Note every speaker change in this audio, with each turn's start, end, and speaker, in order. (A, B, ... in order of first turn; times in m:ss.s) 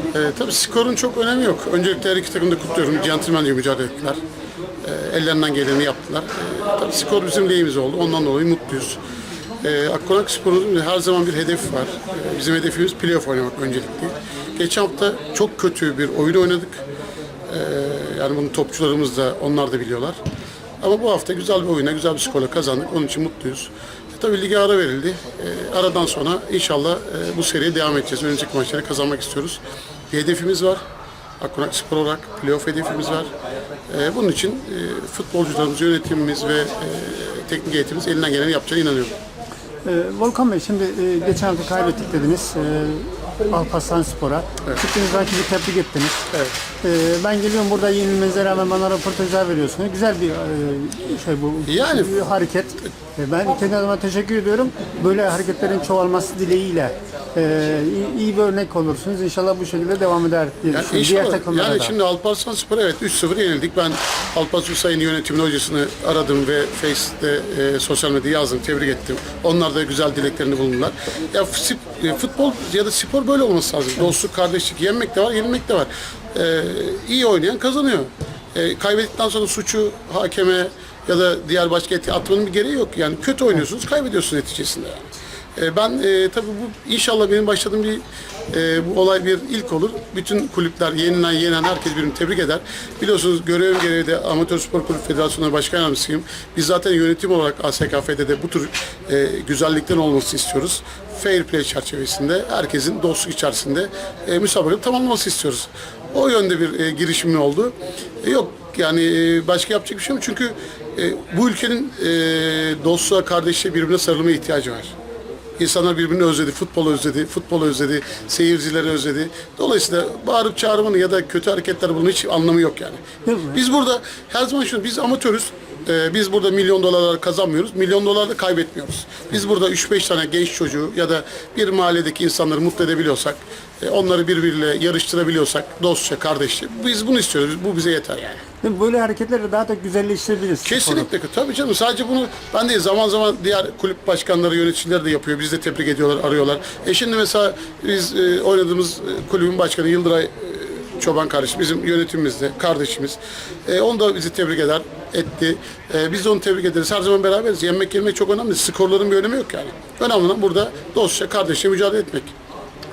0:00.1-0:04.2 A
0:04.8-0:09.0 A
0:09.6-0:16.8 A
0:17.5-0:20.2 A
0:20.8-0:30.8 A
0:31.4-0:33.3 A
0:33.9-0:39.2 A
0:39.8-0:46.3 B
0:46.8-1:01.9 B
0:51.7-0:52.2 A
1:00.7-1:54.9 A
1:55.6-2:03.0 A
2:03.3-2:03.6 B
2:03.5-2:18.4 A
2:18.6-2:21.1 B
2:20.6-2:42.3 A